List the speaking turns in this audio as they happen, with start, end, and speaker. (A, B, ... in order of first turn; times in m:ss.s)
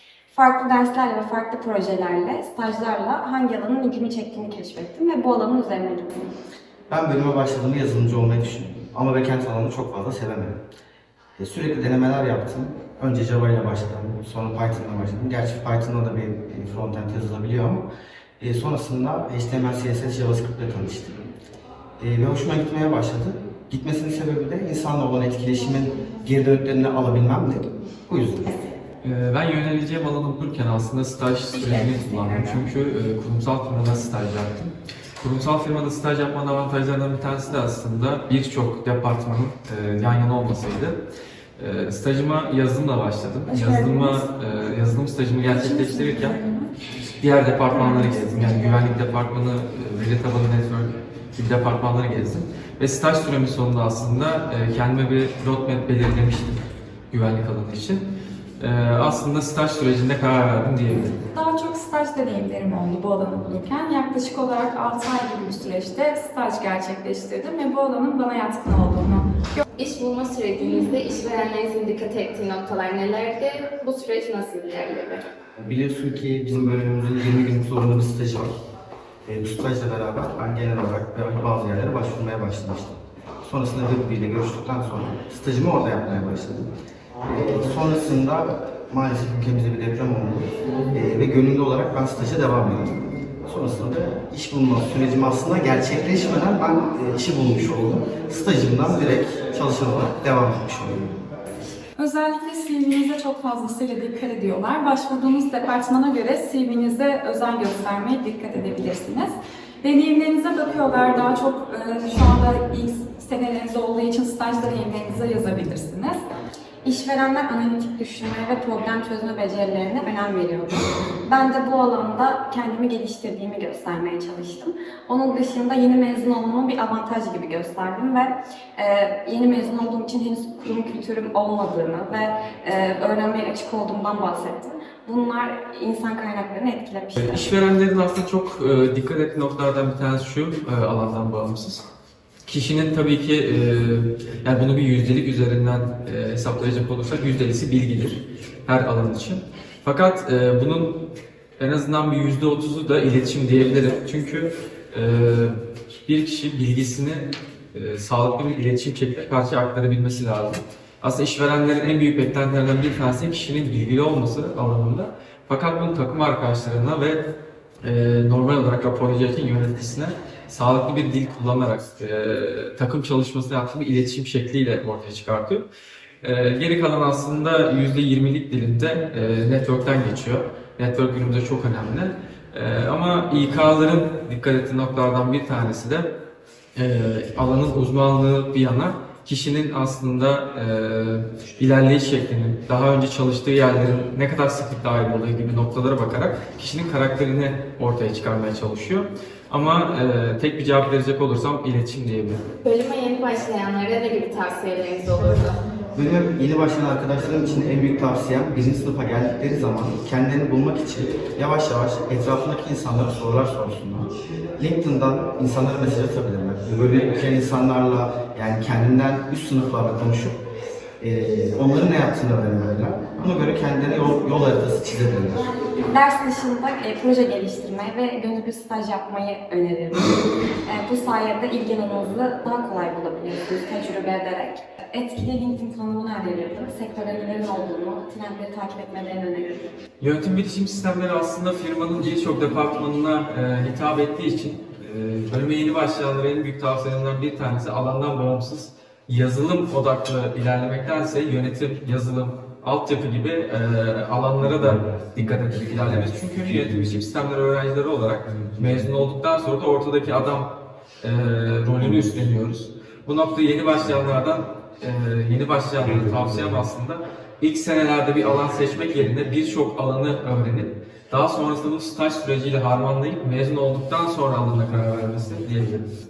0:00.3-0:06.3 A
0:06.9-0:10.6 B
0:11.4-0:17.9 B
0:18.4-0:21.2 B
0:22.0-0:28.6 B
0:29.0-0:41.0 C
0:41.6-0:46.4 C
0:43.5-0:44.3 D
0:45.4-0:46.8 D
0:47.2-0:56.6 C
0:47.6-0:48.9 D
0:57.1-0:58.0 C
0:58.6-1:01.2 C
1:01.2-1:09.6 D
1:09.8-1:15.3 E
1:10.6-1:10.9 D
1:15.6-1:18.5 B
1:19.2-1:26.7 B
1:27.2-1:41.1 B
1:42.0-1:56.2 D
1:56.8-2:17.4 A
2:17.2-2:21.8 C
2:22.4-2:47.3 C
2:47.8-2:55.7 C
2:56.2-3:06.1 C
3:06.8-3:22.4 C
3:22.6-3:25.6 E
3:26.0-3:40.4 B
3:41.0-3:45.5 B
3:45.9-3:59.7 A
4:00.0-4:35.9 C